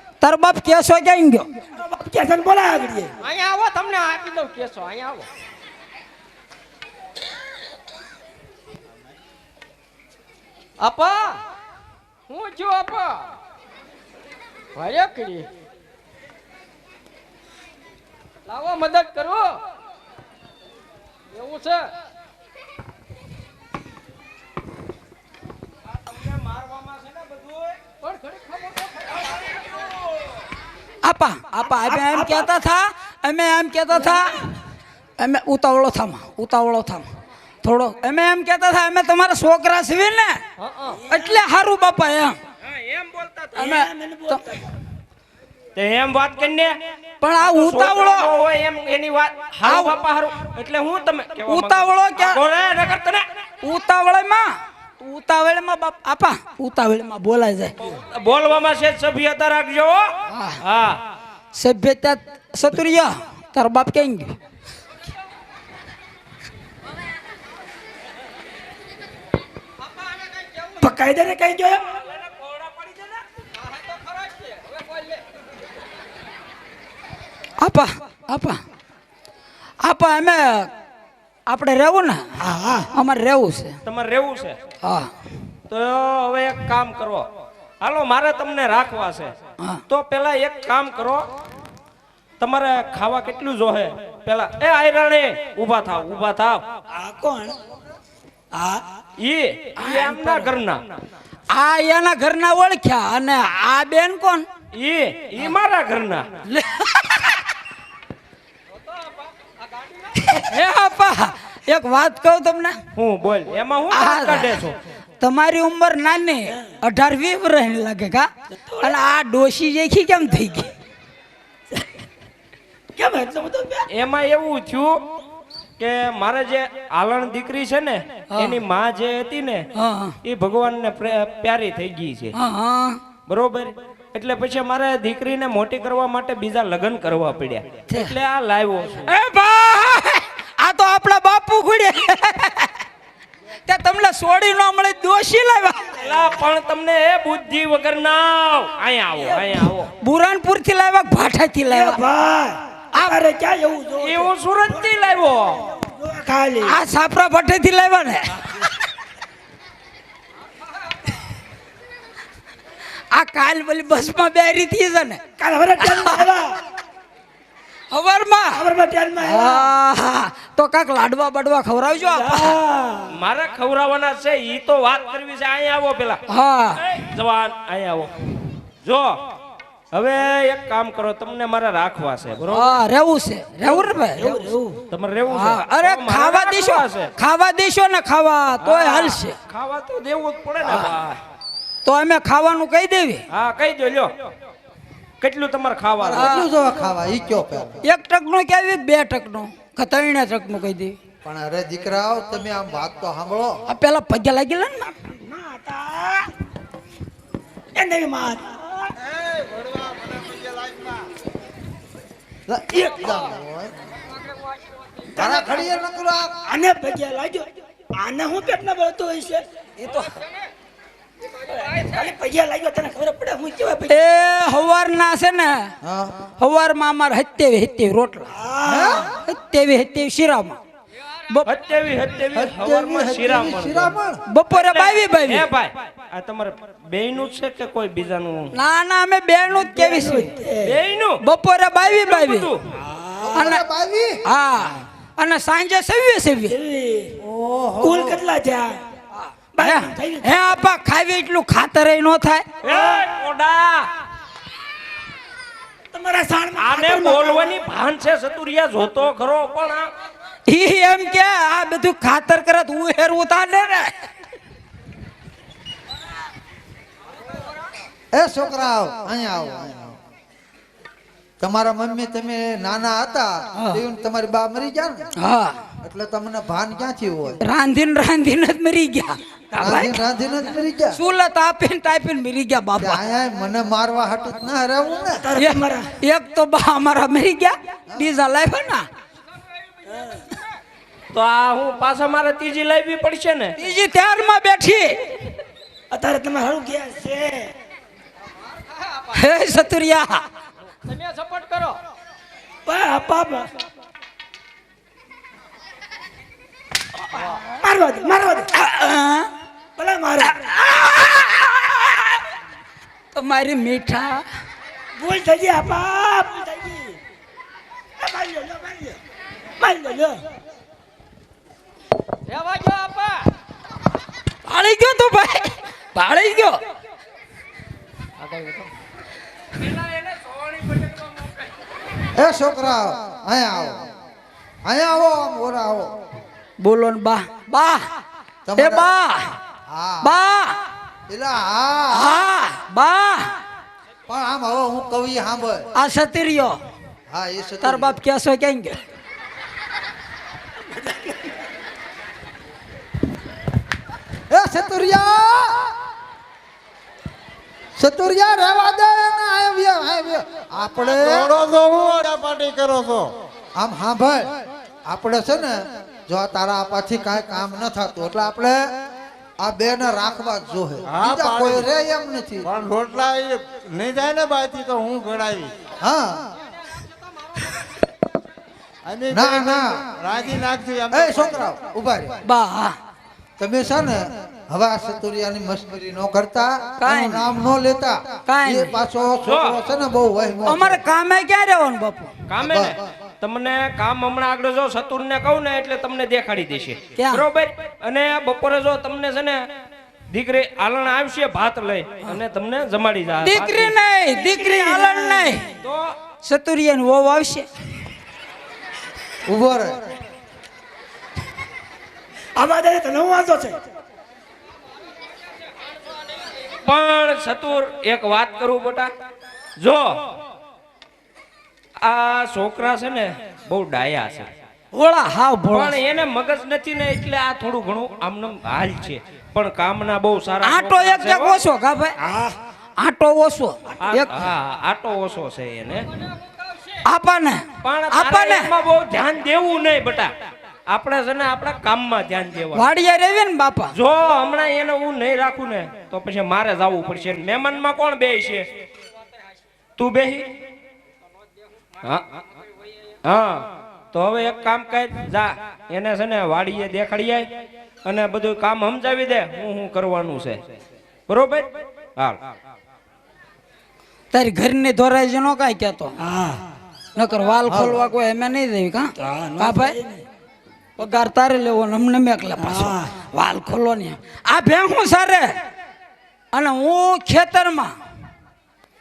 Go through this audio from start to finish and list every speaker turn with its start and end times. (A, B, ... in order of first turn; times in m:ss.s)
0:00.2-0:01.5 A
0:01.8-0:03.1 B
0:03.2-0:05.3 C
0:10.8-0:11.4 C
0:12.3-0:13.3 C
0:14.8-0:15.5 C
0:18.5-0:19.6 C
0:21.3-0:21.9 C
0:26.0-0:27.8 D
0:28.0-0:29.3 C
0:31.0-0:34.4 A
0:31.8-0:32.5 B
0:35.2-0:37.1 A
0:37.6-0:40.4 A
0:40.6-0:41.0 C
0:40.9-0:41.4 B
0:41.1-0:42.4 A
0:42.6-0:43.7 D
0:43.6-0:44.7 B
0:43.6-0:44.4 A
0:45.8-0:46.8 D
0:47.2-0:48.3 A
0:47.4-0:53.3 D
0:49.6-0:49.9 A
0:51.5-0:52.4 A
0:53.6-0:57.8 A
0:57.8-1:01.0 D
1:00.3-1:00.6 A
1:01.5-1:04.4 A
1:09.8-1:10.9 C
1:10.8-1:11.8 B
1:11.9-1:13.2 D
1:13.4-1:15.2 C
1:17.6-1:18.6 A
1:19.8-1:20.7 A
1:21.5-1:22.3 A
1:22.4-1:22.9 B
1:22.9-1:23.8 A
1:23.8-1:24.6 D
1:24.8-1:25.1 A
1:25.7-1:27.3 D
1:27.8-1:29.3 D
1:29.9-1:31.3 D
1:32.4-1:36.7 D
1:36.9-1:37.6 B
1:38.5-1:38.8 B
1:39.2-1:40.9 D
1:39.9-1:40.2 A
1:41.5-1:44.5 A
1:44.7-1:46.4 D
1:46.5-1:47.4 A
1:48.7-1:50.4 C
1:50.3-1:52.8 A
1:53.0-1:54.8 D
1:53.9-1:54.7 A
1:55.2-1:58.3 A
1:58.7-1:59.0 B
1:58.8-2:00.7 A
2:03.0-2:03.9 B
2:03.9-2:05.0 D
2:05.8-2:09.7 D
2:08.3-2:08.6 A
2:09.7-2:10.2 A
2:10.2-2:12.4 D
2:12.4-2:13.0 A
2:13.3-2:19.1 D
2:19.1-2:22.7 A
2:23.7-2:25.9 A
2:26.0-2:29.9 D
2:30.0-2:32.0 A
2:31.7-2:34.3 B
2:34.0-2:35.6 D
2:35.7-2:36.8 B
2:36.6-2:38.7 A
2:43.1-2:45.2 A
2:45.4-2:46.6 B
2:45.8-2:46.2 A
2:47.9-2:48.6 A
2:48.5-2:49.7 B
2:49.2-2:52.6 A
2:52.0-2:53.1 B
2:53.1-2:56.2 D
2:56.3-2:57.0 A
2:56.9-2:58.1 D
2:58.8-2:59.2 D
2:59.9-3:02.8 D
3:02.5-3:04.5 A
3:04.2-3:04.8 B
3:04.9-3:07.1 D
3:05.3-3:09.4 A
3:08.6-3:11.2 D
3:10.6-3:10.9 A
3:11.8-3:13.2 A
3:13.3-3:14.1 D
3:15.2-3:16.4 D
3:16.0-3:17.8 E
3:16.2-3:16.5 A
3:17.8-3:21.0 A
3:21.2-3:23.6 E
3:23.7-3:25.0 A
3:25.1-3:26.3 B
3:27.8-3:28.9 B
3:29.0-3:31.1 F
3:32.5-3:33.8 E
3:32.7-3:33.3 B
3:33.9-3:35.3 C
3:35.2-3:36.4 E
3:35.2-3:35.7 B
3:36.5-3:39.4 B
3:39.8-3:40.1 A
3:39.9-3:40.5 C
3:41.2-3:42.1 C
3:41.6-3:44.0 B
3:43.9-3:45.7 A
3:45.8-3:46.2 E
3:46.4-3:48.3 A
3:48.3-3:49.1 B
3:48.6-3:49.1 E
3:49.1-3:50.6 A
3:51.5-3:54.0 D
3:52.3-3:54.2 E
3:54.3-3:55.5 A
3:54.5-3:58.5 D
3:58.5-4:00.3 A
3:59.6-4:00.8 B
4:00.6-4:01.2 D
4:01.2-4:02.5 A
4:01.9-4:02.6 D
4:02.8-4:03.5 B
4:03.3-4:04.2 E
4:03.3-4:03.6 A
4:04.2-4:06.6 A
4:06.5-4:07.2 B
4:07.2-4:08.2 E
4:07.8-4:08.8 B
4:09.6-4:10.3 B
4:09.6-4:12.5 A
4:12.6-4:13.9 D
4:12.7-4:13.0 B
4:15.9-4:17.5 B
4:16.6-4:19.9 D
4:20.5-4:24.1 A
4:28.1-4:30.0 E
4:31.4-4:35.1 E
4:33.6-4:33.8 A
4:35.2-4:35.6 A
4:35.8-4:37.4 E
4:37.4-4:40.0 A
4:39.6-4:41.0 E
4:40.9-4:43.0 A
4:42.8-4:45.2 E
4:45.2-4:45.9 B
4:45.4-4:48.9 A
4:49.9-4:50.2 B
4:51.1-4:53.6 D
4:53.6-4:55.3 A
4:55.9-4:57.5 B
4:58.3-4:59.6 C
4:59.1-5:00.2 A
5:00.8-5:01.8 C
5:02.7-5:03.5 B
5:07.5-5:08.5 B
5:08.6-5:09.3 A
5:09.8-5:10.5 B
5:10.3-5:12.1 A
5:13.1-5:14.2 A
5:15.0-5:17.0 B
5:18.0-5:19.0 B
5:19.6-5:20.2 B
5:22.3-5:23.3 C
5:24.5-5:26.6 A
5:28.2-5:28.7 C
5:29.6-5:31.0 D
5:32.1-5:33.9 E
5:34.6-5:35.9 E
5:36.6-5:37.9 A
5:38.5-5:38.9 E
5:38.6-5:39.4 A
5:39.7-5:40.2 E
5:40.0-5:40.6 A
5:41.1-5:42.2 E
5:41.9-5:43.4 A
5:44.1-5:45.7 E
5:45.8-5:46.6 A
5:47.1-5:48.0 E
5:47.6-5:48.8 A
5:54.3-5:55.7 E
5:57.8-6:01.3 E
6:00.8-6:03.1 F
6:03.6-6:08.7 E
6:09.4-6:12.5 E
6:10.9-6:11.7 F
6:12.4-6:15.5 F
6:15.8-6:16.3 E
6:18.9-6:21.4 F
6:19.1-6:19.8 E
6:20.9-6:22.2 E
6:22.2-6:22.8 A
6:23.4-6:30.8 E
6:26.8-6:27.3 A
6:28.3-6:28.7 A
6:29.2-6:29.6 D
6:30.5-6:32.1 A
6:32.3-6:39.4 D
6:32.4-6:32.8 E
6:37.0-6:37.2 A
6:40.1-6:43.7 D
6:43.2-6:45.5 A
6:44.1-6:45.4 B
6:45.5-6:45.9 D
6:46.2-6:47.5 A
6:49.3-6:49.9 E
6:52.4-6:53.6 B
6:56.6-6:58.9 D
6:59.6-7:00.0 D
7:01.8-7:04.3 D
7:04.7-7:05.8 A
7:05.5-7:11.4 D
7:10.4-7:12.0 A
7:12.0-7:12.4 B
7:12.8-7:14.2 A
7:13.8-7:15.9 D
7:15.9-7:16.9 C
7:16.8-7:18.5 A
7:17.6-7:20.1 D
7:20.7-7:22.7 D
7:22.5-7:23.8 A
7:23.7-7:28.5 D
7:29.8-7:30.3 D
7:33.0-7:37.3 D
7:37.8-7:40.4 D
7:41.1-7:42.2 D
7:44.1-7:46.0 A
7:46.0-7:46.4 B
7:47.0-7:49.8 A
7:47.5-7:47.8 E
7:49.0-7:50.0 B
7:50.8-7:55.4 A
7:52.4-7:52.9 B
7:56.3-7:57.8 A